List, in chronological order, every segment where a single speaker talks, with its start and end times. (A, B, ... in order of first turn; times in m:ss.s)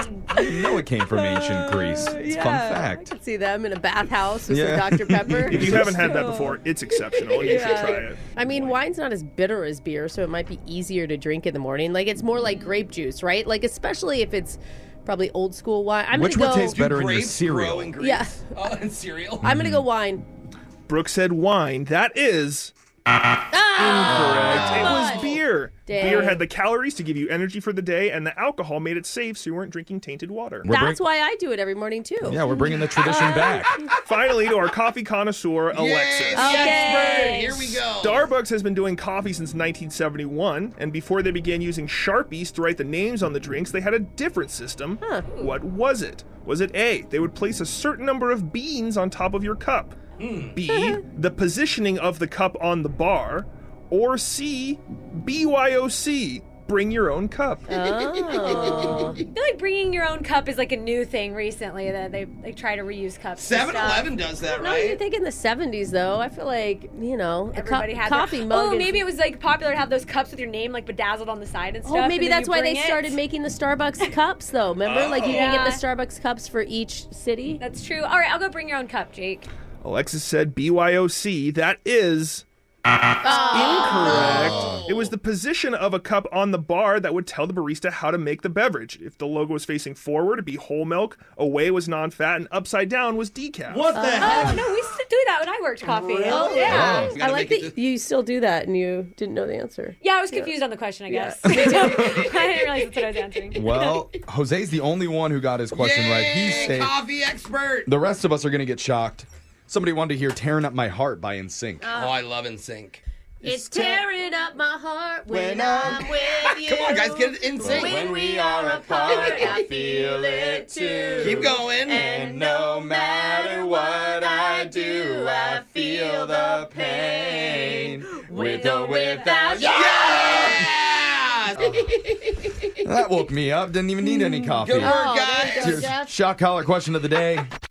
0:00.3-0:06.6 A
0:00.3-0:03.1 B
0:04.5-0:05.9 B
0:05.5-0:08.7 C
0:07.3-0:16.8 A
0:16.1-0:17.9 B
0:16.6-0:19.5 D
0:18.0-0:18.6 A
0:19.4-0:19.8 B
0:19.4-0:20.2 A
0:20.9-0:22.7 C
0:23.5-0:26.4 A
0:23.8-0:30.7 C
0:24.1-0:25.0 B
0:25.1-0:25.4 D
0:30.6-0:31.0 B
0:30.7-0:32.4 A
0:32.2-0:33.8 B
0:34.1-0:36.9 C
0:35.7-0:38.3 D
0:36.3-0:37.6 A
0:37.0-0:37.6 E
0:37.8-0:50.0 C
0:50.2-0:50.6 D
0:50.5-0:57.7 C
0:50.7-0:51.0 A
0:57.7-0:59.2 A
0:57.9-0:59.2 D
0:59.3-1:04.1 E
1:03.4-1:05.0 D
1:04.5-1:09.0 A
1:07.5-1:13.2 E
1:11.8-1:17.6 A
1:14.8-1:15.6 D
1:15.3-1:15.8 E
1:17.6-1:19.5 E
1:19.8-1:22.4 C
1:23.2-1:24.4 A
1:23.5-1:33.9 C
1:23.6-1:25.2 D
1:33.7-1:34.7 D
1:33.9-1:34.6 A
1:34.2-1:36.9 E
1:35.8-1:37.8 D
1:36.3-1:40.5 A
1:36.6-1:37.1 B
1:40.0-1:43.6 E
1:41.1-1:42.1 A
1:41.5-1:42.3 B
1:43.5-1:46.9 B
1:45.8-1:47.9 D
1:47.9-1:51.9 B
1:51.8-1:52.2 A
1:51.9-1:53.0 D
1:53.4-1:54.0 B
1:53.4-2:10.6 A
1:55.3-1:56.1 B
1:56.2-1:58.1 D
1:57.6-2:10.6 B
1:59.1-1:59.5 D
2:01.2-2:02.1 D
2:09.6-2:12.5 D
2:11.6-2:11.9 B
2:12.8-2:17.5 B
2:14.0-2:16.1 A
2:14.6-2:15.9 D